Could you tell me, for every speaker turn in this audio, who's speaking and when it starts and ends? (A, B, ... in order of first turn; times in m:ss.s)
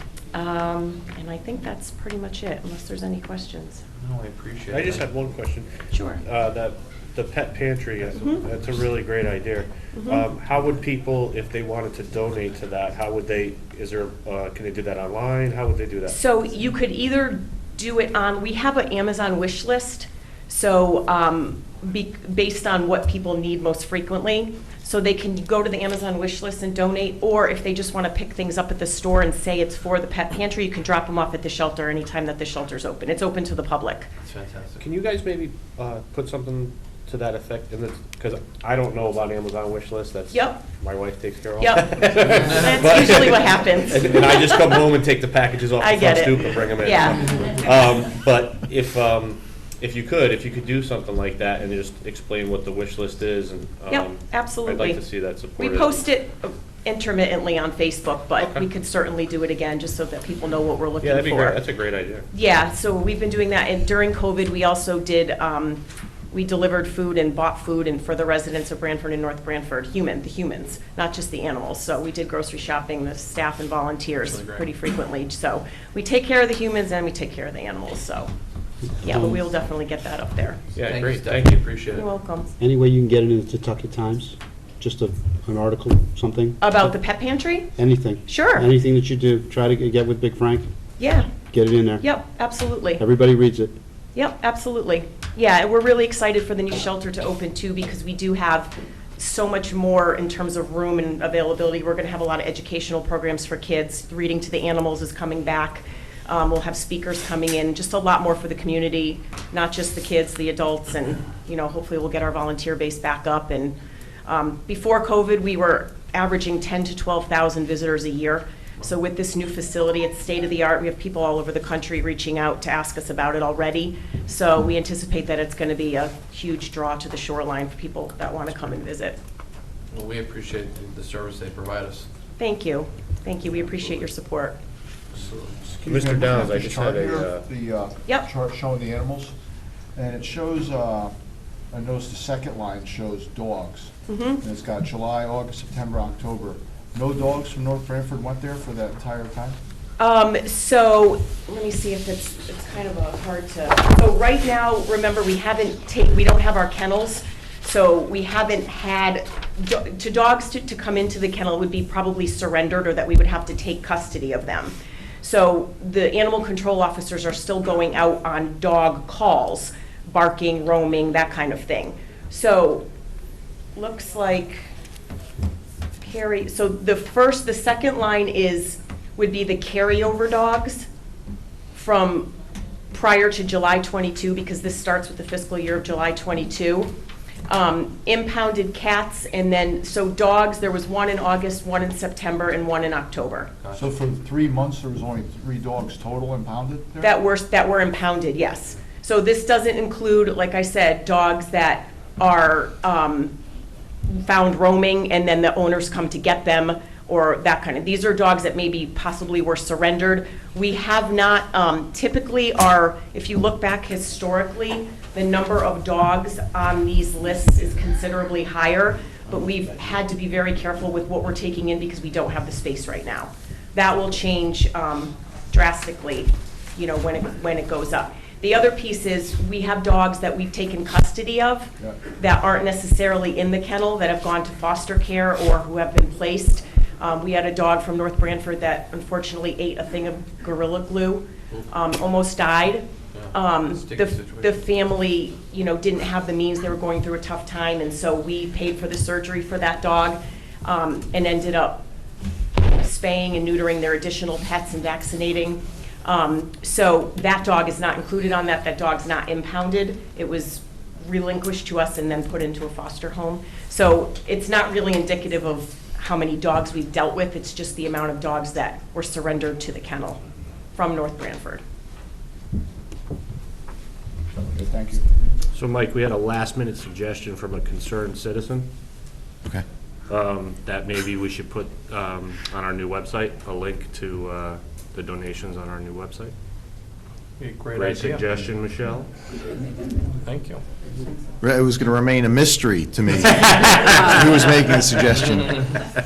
0:00.3-0:03.8 A
0:04.0-0:05.1 B
0:04.7-0:05.7 C
0:05.9-0:06.2 A
0:06.2-0:16.2 C
0:09.9-0:10.2 A
0:16.1-0:34.1 A
0:34.2-0:34.8 B
0:34.8-0:56.0 C
0:40.3-0:40.6 A
0:41.6-0:44.8 A
0:45.8-0:47.5 A
0:53.9-0:55.0 A
0:55.6-1:01.6 A
0:58.4-0:58.6 C
1:01.0-1:02.2 C
1:02.3-1:18.3 A
1:14.2-1:14.7 B
1:19.0-1:20.6 A
1:20.7-1:21.6 C
1:20.8-1:22.0 B
1:21.9-1:22.5 A
1:22.6-1:26.5 D
1:26.6-1:27.7 A
1:27.8-1:30.7 D
1:28.2-1:28.7 A
1:31.0-1:31.3 A
1:31.5-1:32.0 D
1:32.0-1:33.0 A
1:33.0-1:33.7 D
1:34.1-2:09.2 A
2:09.9-2:12.1 B
2:12.4-2:14.6 A
2:15.1-2:15.7 B
2:15.7-2:19.3 E
2:15.8-2:17.4 C
2:19.9-2:21.1 E
2:21.7-2:29.6 E
2:24.1-2:24.4 A
2:30.0-2:52.8 A
2:53.7-2:54.6 A
2:56.0-3:00.9 A
3:01.7-3:02.3 A
3:02.9-3:06.9 A
3:07.5-3:13.5 A
3:13.7-3:17.1 E
3:17.0-3:23.3 A
3:24.1-4:11.8 A
4:03.1-4:04.6 B
4:12.7-4:30.2 A
4:30.7-4:31.6 A
4:34.4-4:35.0 E
4:35.5-4:38.7 C
4:40.1-4:46.3 C
4:47.4-4:48.3 B
4:47.7-4:49.1 C
4:50.2-4:50.6 B
4:51.4-4:55.6 F